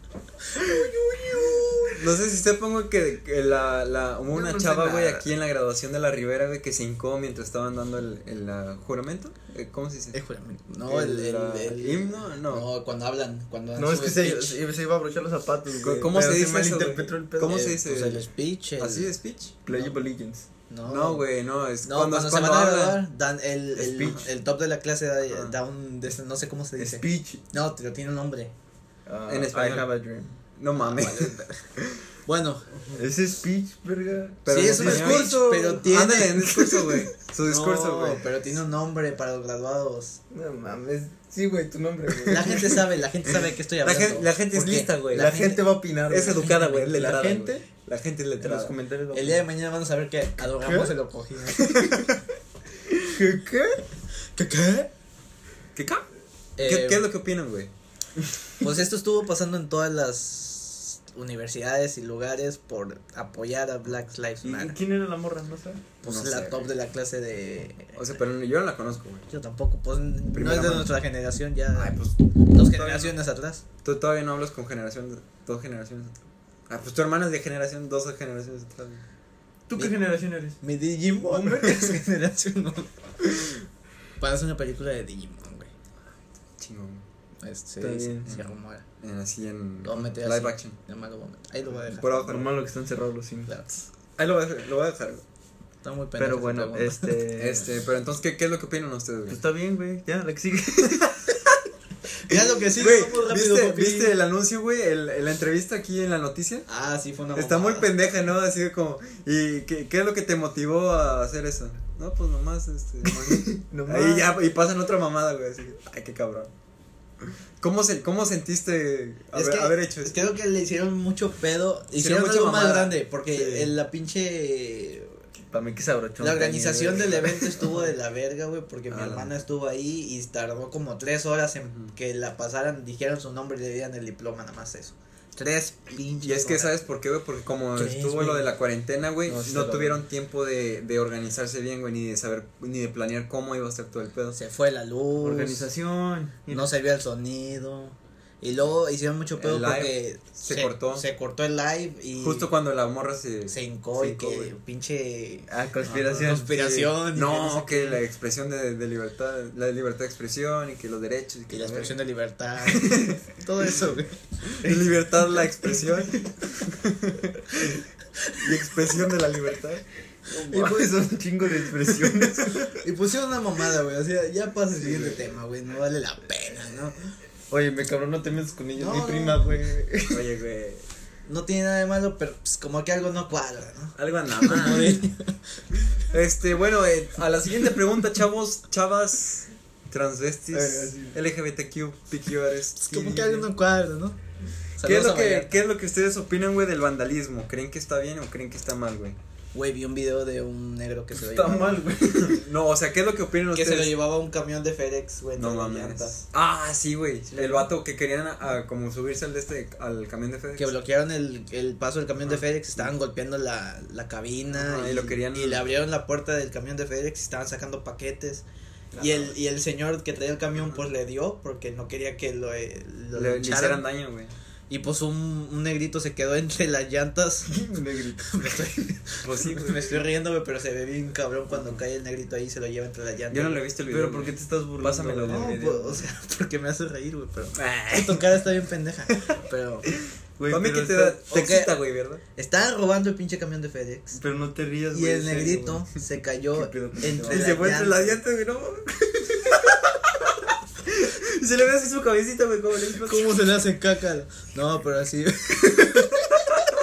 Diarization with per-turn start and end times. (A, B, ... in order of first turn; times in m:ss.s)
0:00.5-0:02.0 A
0:01.9-0:10.2 B
0:04.3-0:05.3 C
0:10.1-0:14.6 A
0:10.8-0:12.7 B
0:13.8-0:17.6 C
0:15.8-0:19.6 B
0:17.5-0:19.2 A
0:19.6-0:20.5 C
0:20.7-0:21.3 A
0:20.9-0:23.0 B
0:21.8-0:28.5 A
0:23.8-0:24.2 C
0:25.3-0:25.6 B
0:26.8-0:27.4 C
0:29.1-0:30.3 C
0:29.3-0:29.9 B
0:30.5-0:32.1 B
0:30.8-0:31.7 A
0:32.3-0:33.0 A
0:33.0-0:35.8 C
0:34.4-0:38.3 B
0:34.5-0:36.9 A
0:37.4-0:40.2 A
0:40.3-0:42.8 C
0:42.3-0:45.6 A
0:43.3-0:45.4 B
0:45.1-0:47.7 C
0:46.1-0:48.7 B
0:46.5-0:47.1 A
0:48.4-0:49.5 C
0:49.1-0:51.9 A
0:50.6-0:50.9 C
0:51.7-0:52.1 B
0:53.0-0:53.8 C
0:54.4-0:54.9 A
0:55.8-0:56.1 B
0:56.6-0:57.1 A
0:56.6-0:57.7 B
0:58.6-1:04.8 A
1:04.4-1:05.9 C
1:06.0-1:08.1 A
1:06.0-1:06.7 B
1:07.9-1:09.3 B
1:09.3-1:13.6 A
1:10.3-1:11.0 B
1:11.8-1:13.2 B
1:13.8-1:16.2 B
1:16.7-1:19.0 B
1:19.7-1:20.6 C
1:20.6-1:22.9 A
1:21.2-1:22.0 C
1:24.2-1:25.7 A
1:26.5-1:27.0 B
1:27.4-1:28.8 A
1:27.8-1:28.3 C
1:28.2-1:30.8 B
1:29.8-1:32.4 A
1:31.9-1:32.5 B
1:32.2-1:33.5 C
1:34.2-1:35.2 B
1:35.8-1:37.1 A
1:36.2-1:37.7 C
1:37.4-1:39.4 B
1:39.3-1:41.3 C
1:42.3-1:44.1 A
1:42.3-1:46.7 B
1:46.7-1:48.0 A
1:47.4-1:56.5 B
1:53.1-1:54.3 C
1:57.6-2:00.1 B
1:59.3-2:05.2 A
2:02.0-2:03.7 B
2:05.5-2:07.8 C
2:06.2-2:16.8 A
2:08.9-2:09.3 B
2:16.2-2:24.4 B
2:17.8-2:18.4 A
2:19.3-2:20.0 C
2:24.3-2:25.7 A
2:25.2-2:26.7 C
2:26.5-2:32.5 A
2:29.4-2:31.0 B
2:32.2-2:34.5 B
2:33.5-2:35.5 A
2:35.5-2:36.9 C
2:35.8-2:36.4 B
2:36.2-2:38.0 A
2:37.1-2:42.0 B
2:41.5-2:44.2 A
2:42.8-2:43.2 B
2:44.6-2:47.8 B
2:44.6-2:44.9 C
2:48.4-2:50.9 B
2:50.3-2:52.6 C
2:52.2-2:52.5 B
2:52.8-2:57.0 A
2:56.6-2:57.0 B
2:57.5-3:00.3 C
2:58.8-2:59.6 A
3:00.1-3:00.9 B
3:01.3-3:05.4 A
3:04.0-3:05.0 B
3:06.0-3:13.5 B
3:10.5-3:11.2 C
3:12.8-3:14.2 A
3:14.8-3:15.5 A
3:14.8-3:19.2 B
3:19.5-3:21.8 A
3:21.1-3:22.4 C
3:22.2-3:23.9 B
3:23.5-3:26.2 A
3:25.4-3:30.8 B
3:27.3-3:27.7 A
3:30.6-3:38.4 A
3:32.3-3:32.9 B
3:34.5-3:35.7 B
3:38.9-3:39.3 C
3:39.0-3:43.9 A
3:43.1-3:44.3 B
3:44.7-3:47.5 A
3:47.5-3:48.5 C
3:48.2-3:53.6 A
3:49.3-3:49.8 B
3:53.3-3:55.6 B
3:53.9-3:56.1 C
3:55.3-3:59.9 A
3:57.6-3:58.5 B
4:00.0-4:02.2 B
4:00.4-4:01.2 C
4:01.3-4:04.2 A
4:04.2-4:05.9 C
4:04.9-4:08.2 A
4:06.6-4:07.9 C
4:07.2-4:08.9 B
4:09.4-4:09.9 B
4:10.8-4:13.4 B
4:13.0-4:16.3 A